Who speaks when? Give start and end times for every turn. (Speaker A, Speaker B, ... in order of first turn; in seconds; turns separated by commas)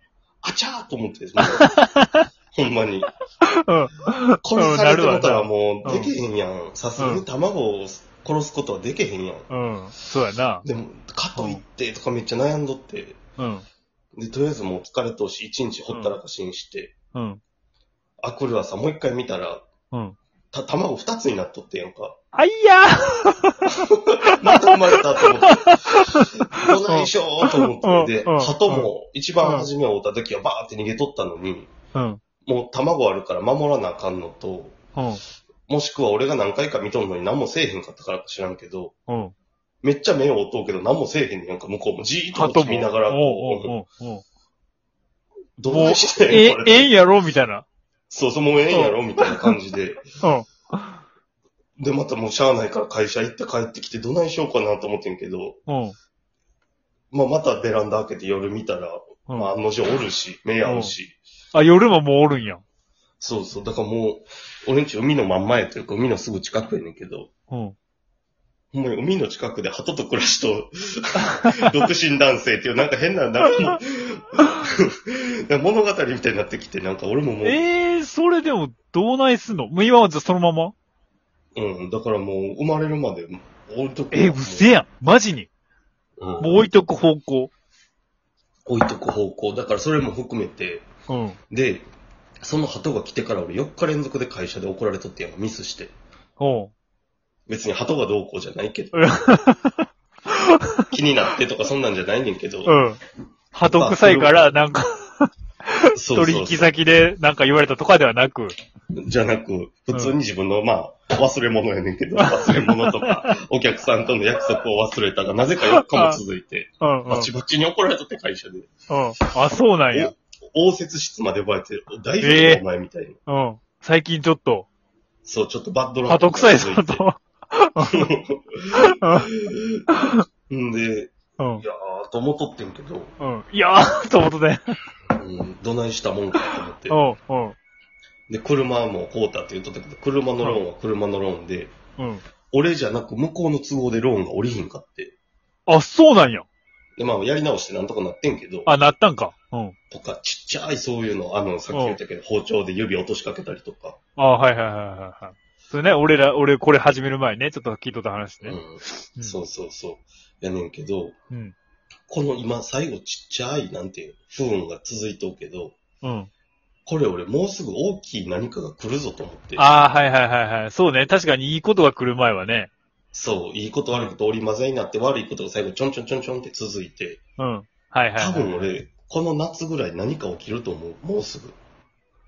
Speaker A: 0.4-1.8, Speaker B: 1.5-2.2, Speaker A: 2.5-3.1, Speaker B: 3.4-6.1, Speaker A: 4.4-9.5, Speaker B: 7.0-7.2, Speaker B: 9.5-10.7, Speaker A: 10.6-13.2, Speaker B: 11.3-11.6, Speaker B: 13.4-13.6, Speaker A: 14.2-16.9, Speaker B: 15.9-16.1, Speaker B: 17.1-17.4, Speaker A: 18.2-19.6, Speaker B: 19.9-20.2, Speaker A: 20.5-22.2, Speaker B: 22.3-28.9, Speaker A: 24.1-31.7, Speaker B: 29.4-29.7, Speaker B: 31.9-32.2, Speaker A: 32.4-34.8, Speaker B: 34.9-35.2, Speaker A: 35.7-38.9, Speaker B: 39.1-39.3, Speaker A: 39.8-43.7, Speaker B: 42.3-44.2, Speaker A: 45.6-46.9, Speaker B: 45.7-47.6, Speaker A: 48.1-50.0, Speaker B: 48.7-49.5, Speaker B: 50.2-51.0, Speaker A: 51.8-55.6, Speaker B: 55.7-56.0, Speaker A: 57.1-61.2, Speaker B: 60.6-61.0, Speaker B: 61.5-62.6, Speaker A: 63.2-67.3, Speaker B: 67.5-67.8, Speaker A: 68.7-77.6, Speaker B: 71.4-71.7, Speaker B: 77.4-80.7, Speaker A: 81.5-84.7, Speaker B: 84.1-85.5, Speaker A: 86.2-86.7, Speaker B: 86.4-87.5, Speaker A: 88.7-90.8, Speaker B: 91.1-91.4, Speaker A: 91.5-91.8, Speaker A: 92.4-95.9, Speaker B: 96.4-96.7, Speaker A: 97.5-99.0, Speaker B: 98.9-100.9, Speaker A: 100.9-102.8, Speaker B: 102.6-103.0, Speaker B: 103.5-105.3, Speaker A: 103.6-104.5, Speaker B: 105.8-108.5, Speaker A: 105.9-106.7, Speaker A: 108.9-118.7, Speaker B: 109.9-110.2, Speaker B: 112.2-113.3, Speaker B: 115.7-116.2, Speaker B: 116.8-117.3, Speaker B: 118.9-120.1, Speaker A: 119.9-123.2, Speaker B: 122.2-122.6, Speaker B: 123.3-124.7, Speaker A: 125.2-127.1, Speaker B: 126.1-128.1, Speaker A: 127.9-129.8, Speaker B: 128.8-129.3, Speaker B: 129.9-130.2, Speaker A: 130.5-133.1, Speaker B: 131.4-131.6, Speaker B: 133.2-134.7, Speaker A: 135.1-137.0, Speaker B: 136.4-137.6, Speaker A: 138.3-141.7, Speaker B: 142.0-142.2, Speaker A: 142.5-145.1, Speaker B: 145.7-146.5, Speaker A: 147.0-148.7, Speaker B: 148.7-149.8, Speaker A: 149.9-154.0, Speaker B: 151.7-152.0, Speaker B: 154.2-159.4, Speaker A: 158.4-161.2, Speaker A: 162.1-165.8, Speaker B: 166.0-166.3, Speaker A: 166.8-169.7, Speaker B: 169.6-172.7, Speaker A: 173.1-177.2, Speaker B: 177.4-178.7, Speaker A: 178.2-181.6